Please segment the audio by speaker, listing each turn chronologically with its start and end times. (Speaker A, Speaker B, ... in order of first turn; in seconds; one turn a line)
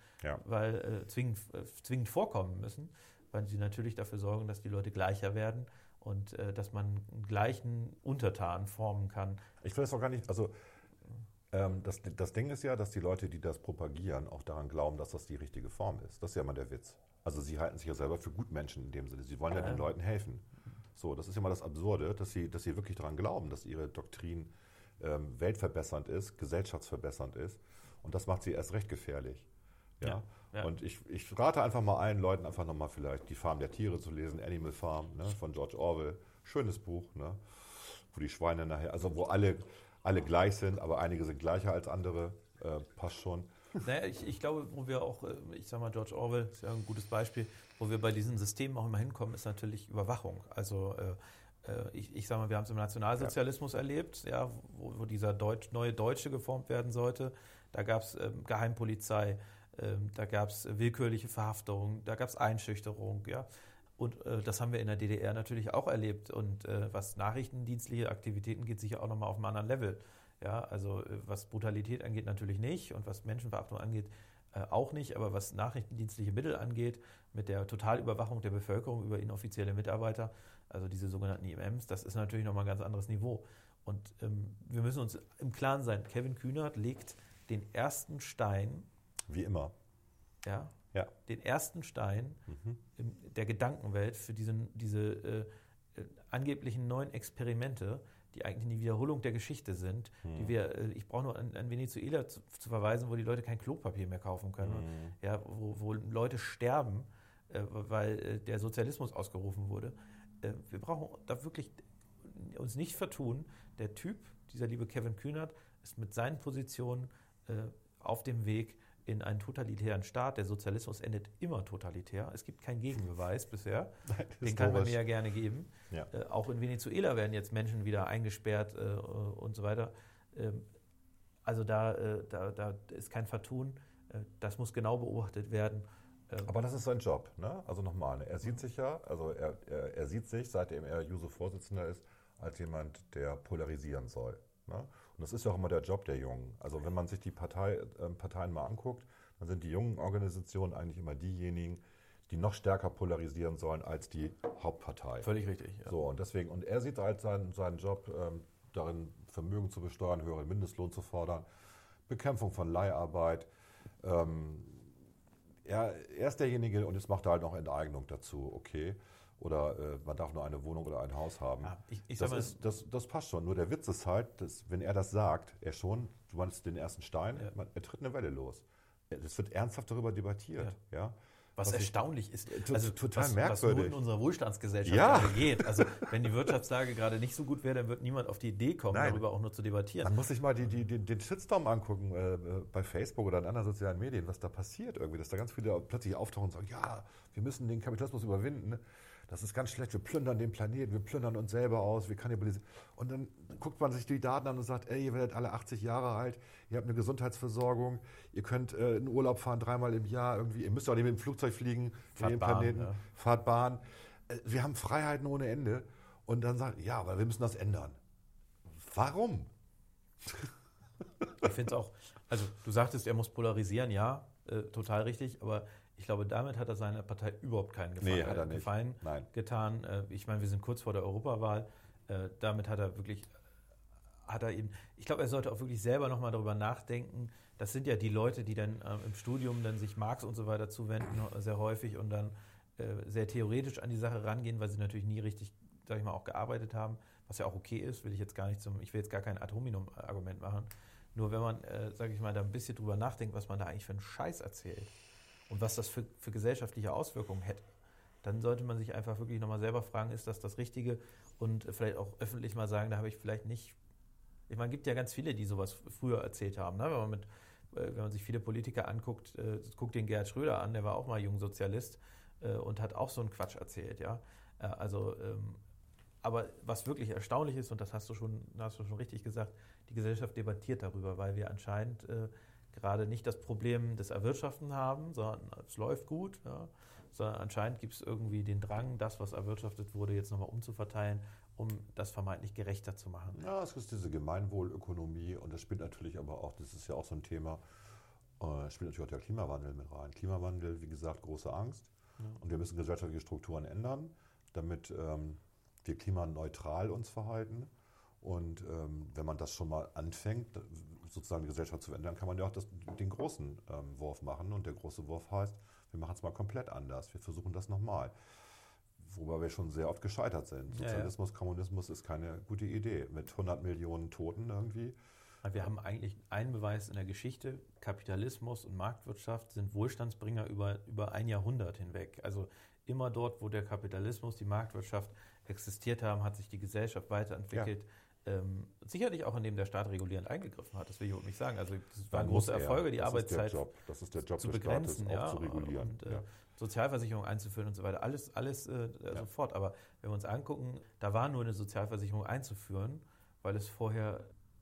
Speaker A: 0.4-9.4
Speaker B: 9.6-10.5
Speaker B: 11.5-29.5
Speaker B: 30.0-43.5
Speaker A: 30.0-30.7
Speaker A: 43.8-63.5
Speaker A: 64.0-88.9
Speaker B: 89.3-89.7
Speaker A: 90.4-92.4
Speaker B: 92.5-92.8
Speaker A: 93.0-130.7
Speaker B: 100.2-100.5
Speaker B: 104.6-105.1
Speaker B: 124.1-125.0
Speaker A: 131.4-136.5
Speaker B: 136.4-155.3
Speaker A: 155.2-155.9
Speaker B: 155.8-161.5
Speaker B: 162.1-163.5
Speaker B: 164.0-164.9
Speaker B: 165.6-181.9
Speaker A: 171.6-172.6
Speaker A: 181.6-190.1
Speaker B: 182.5-184.0
Speaker B: 184.8-185.9
Speaker B: 188.9-189.2
Speaker B: 190.0-218.0
Speaker A: 212.2-213.0
Speaker B: 218.7-219.5
Speaker B: 220.2-220.5
Speaker A: 221.4-233.3
Speaker B: 228.0-229.3
Speaker A: 234.3-254.9
Speaker A: 255.5-257.6
Speaker A: 258.2-263.8
Speaker A: 264.5-275.6
Speaker A: 276.2-293.4
Speaker B: 293.3-297.6
Speaker B: 298.4-307.7
Speaker B: 308.2-318.1
Speaker B: 319.0-325.0
Speaker A: 320.7-321.1
Speaker A: 325.4-343.6
Speaker B: 342.1-346.2
Speaker A: 344.4-354.3